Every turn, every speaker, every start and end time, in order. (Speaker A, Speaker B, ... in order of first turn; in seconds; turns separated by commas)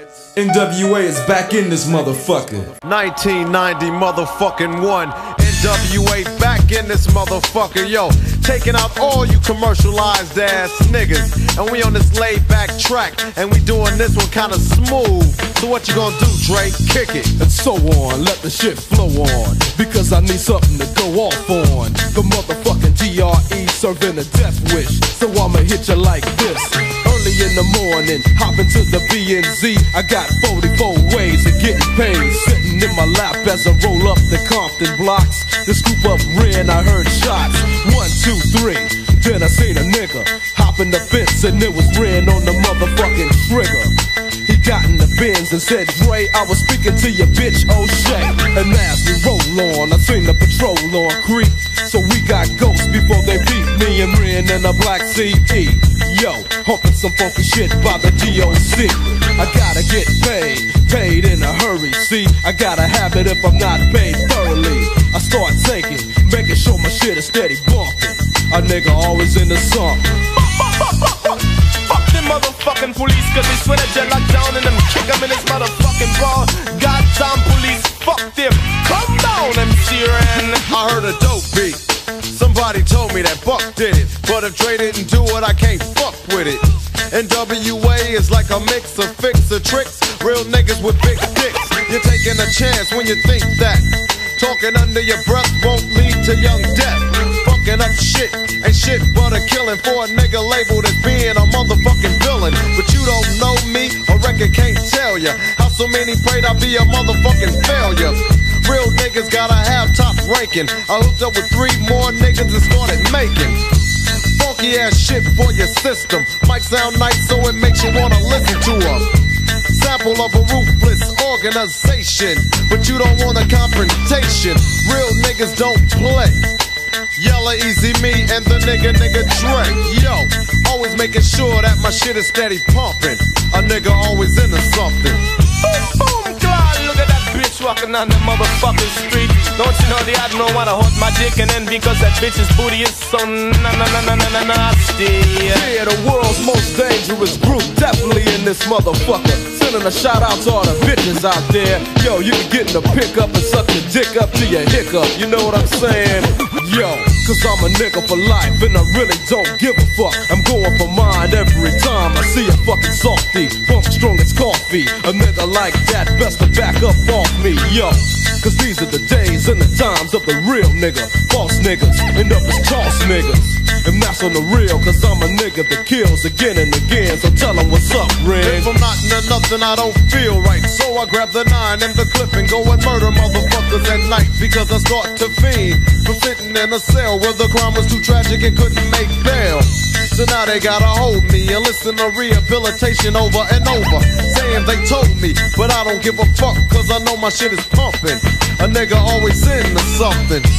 Speaker A: 0.4-2.7, Speaker B: 2.8-17.3, Speaker C: 17.4-70.3, Speaker D: 70.6-80.7, Speaker B: 80.7-113.6, Speaker B: 114.3-119.1, Speaker B: 119.7-126.5, Speaker B: 127.2-135.2, Speaker D: 135.6-145.7, Speaker C: 145.5-178.7, Speaker B: 178.4-200.5